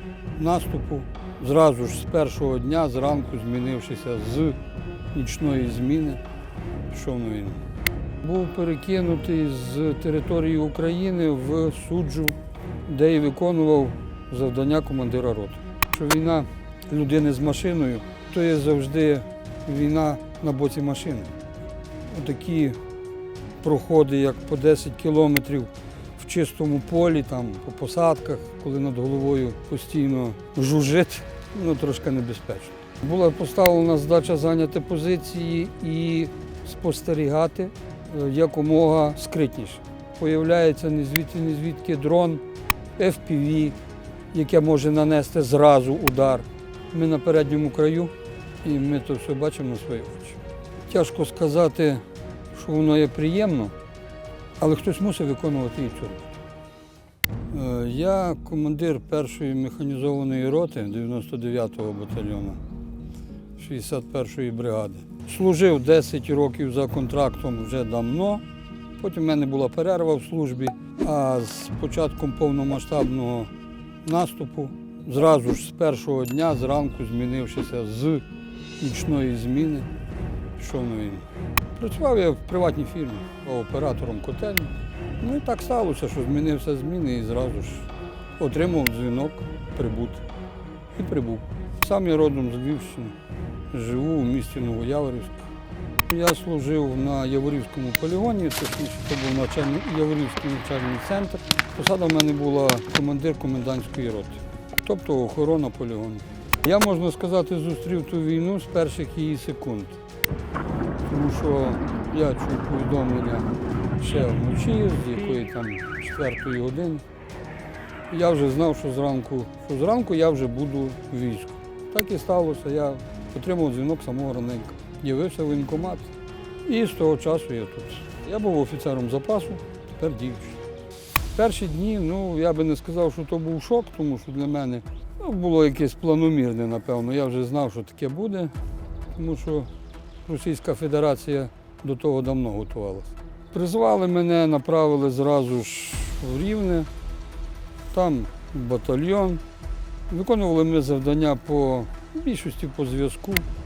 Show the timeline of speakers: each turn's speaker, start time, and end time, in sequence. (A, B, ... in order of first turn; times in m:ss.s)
0:00.4-0:04.6 A
0:05.1-0:06.2 A
0:06.9-0:07.6 A
0:08.2-0:21.3 A
0:22.1-0:22.8 A
0:23.6-0:42.4 A
0:43.0-0:43.8 A
0:44.3-0:48.1 A
0:48.6-0:53.7 A
0:54.6-0:56.4 A
0:57.5-1:02.6 A
1:03.6-1:08.4 A
1:09.0-1:13.5 A
1:14.0-1:18.2 A
1:18.8-1:19.9 A
1:20.6-1:30.2 A
1:30.9-1:33.2 A
1:33.7-1:35.5 A
1:36.1-1:50.0 A
1:51.0-1:57.0 A
1:58.1-2:06.1 A
2:06.6-2:10.6 A
2:11.4-2:18.5 A
2:19.1-2:19.7 A
2:20.2-2:26.9 A
2:27.9-2:29.4 A
2:30.1-2:33.5 A